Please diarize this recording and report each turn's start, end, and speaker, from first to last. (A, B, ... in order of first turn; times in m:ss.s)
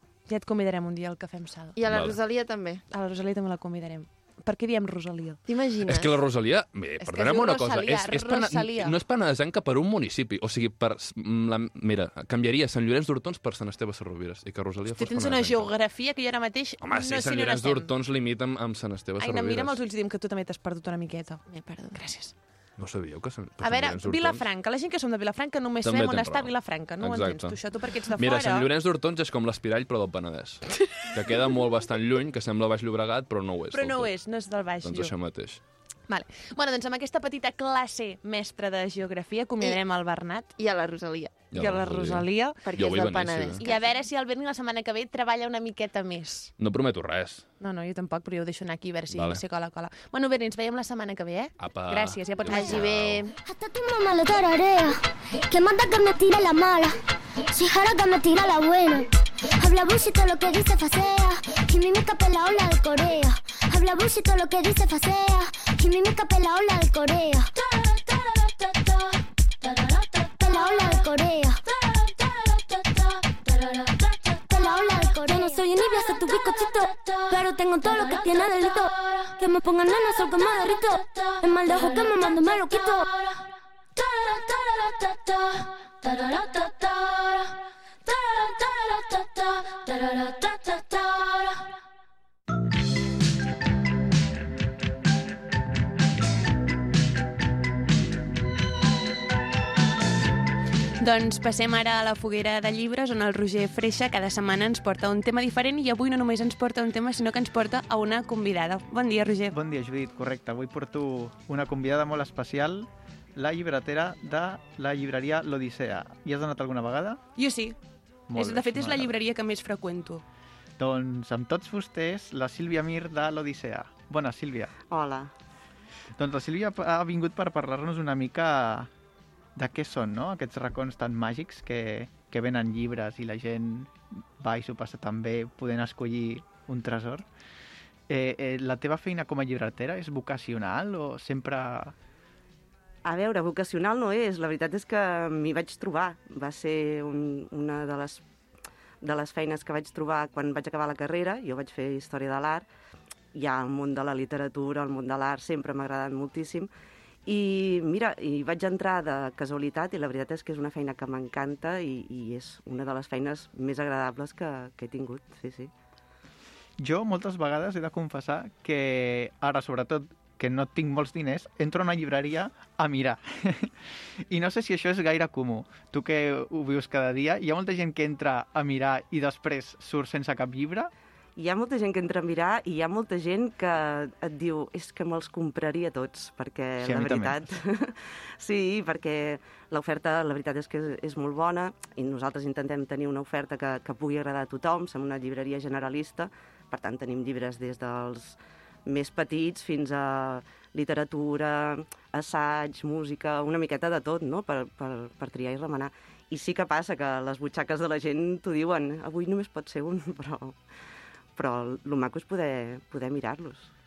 0:00.3-0:01.8 A
0:01.8-0:02.8 B
0:01.9-0:02.2 C
0:02.9-0:05.4 A
0:05.4-0:06.2 B
0:05.8-0:15.7 C
0:07.0-0:08.9 A
0:14.9-0:17.9 A
0:16.8-0:19.8 C
0:19.2-0:21.4 A
0:21.5-0:22.0 B
0:21.9-0:22.3 A
0:22.8-0:24.4 C
0:23.6-0:28.7 A
0:25.8-0:27.6 C
0:28.2-0:34.1 C
0:33.7-0:35.1 A
0:34.8-0:35.6 C
0:36.1-0:40.5 A
0:40.6-0:41.6 B
0:41.5-0:43.6 C
0:41.5-0:42.6 A
0:42.6-0:43.8 B
0:43.6-0:46.5 A
0:46.6-0:47.4 C
0:47.6-0:52.9 A
0:49.1-0:49.4 C
0:51.6-0:53.2 C
0:52.5-0:53.3 B
0:53.4-0:57.0 D
0:57.5-1:07.5 D
1:10.2-1:11.6 D
1:14.3-1:23.2 D
1:24.0-1:27.1 D
1:30.1-1:30.7 D
1:41.0-1:49.5 A
1:49.5-1:57.2 E
1:57.4-1:57.8 A
1:58.3-1:59.1 E
1:58.3-2:00.2 A
2:00.8-2:04.7 E
2:04.9-2:05.3 F
2:06.2-2:08.9 E
2:09.6-2:17.2 E
2:18.1-2:21.9 E
2:23.0-2:28.2 F
2:29.0-2:32.6 F
2:33.3-2:36.7 F
2:37.2-2:45.7 F
2:46.8-2:53.7 E
2:54.3-3:00.9 E
3:01.4-3:30.6 F
3:06.8-3:07.4 E
3:31.4-3:33.7 F